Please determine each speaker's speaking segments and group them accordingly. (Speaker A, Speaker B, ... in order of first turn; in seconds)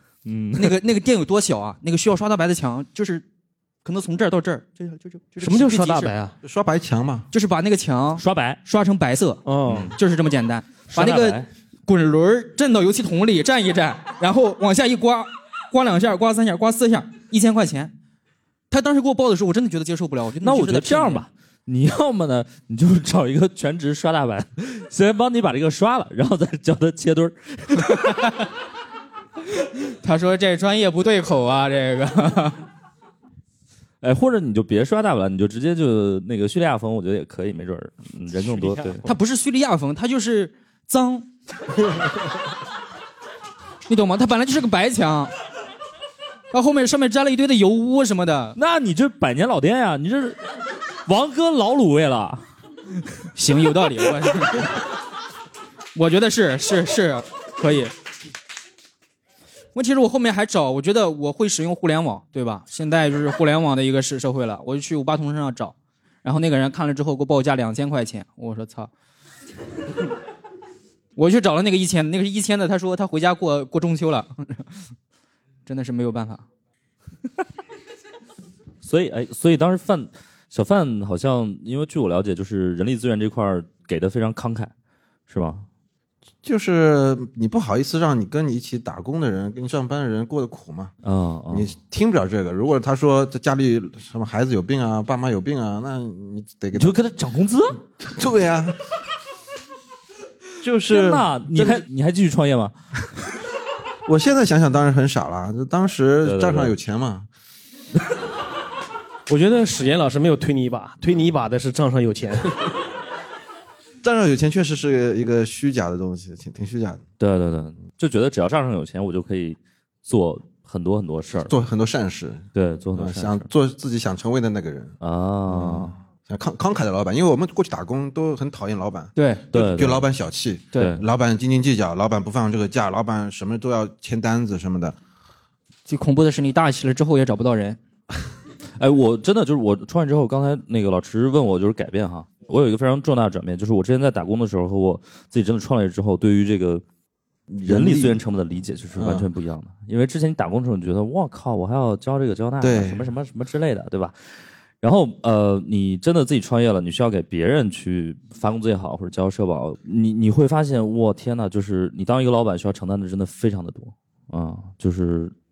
Speaker A: 0.2-0.8, 8.2-8.6, 9.7-10.0, 10.9-11.5, 20.4-28.1, 34.0-39.0, 48.6-50.4, 51.1-52.4, 78.8-84.7, 85.3-85.7, 91.0-91.7, 96.7-97.8, 100.9-102.7, 106.2-106.7, 117.2-121.5, 122.5-123.5, 125.0-126.0, 129.5-130.1, 130.8-131.0, 138.8-146.8, 147.7-154.2, 154.8-165.3
Speaker B: 0.6-3.2, 3.9-6.1, 7.3-17.9, 18.7-21.2, 30.0-32.6, 39.0-41.3, 43.9-45.3, 46.5-48.6, 53.4-54.8, 56.0-57.9, 59.8-68.9, 71.2-74.7, 75.7-76.5, 129.2-129.4, 135.9-137.8
Speaker C: 5.4-6.4, 9.4-9.9, 109.3-112.7
Speaker D: 6.4-7.3, 86.4-90.9, 91.5-97.0, 98.0-98.8, 100.6-101.9, 104.1-107.3, 114.0-117.0, 121.5-125.0, 125.5-135.0, 147.5-148.2, 148.9-149.3, 152.6-153.1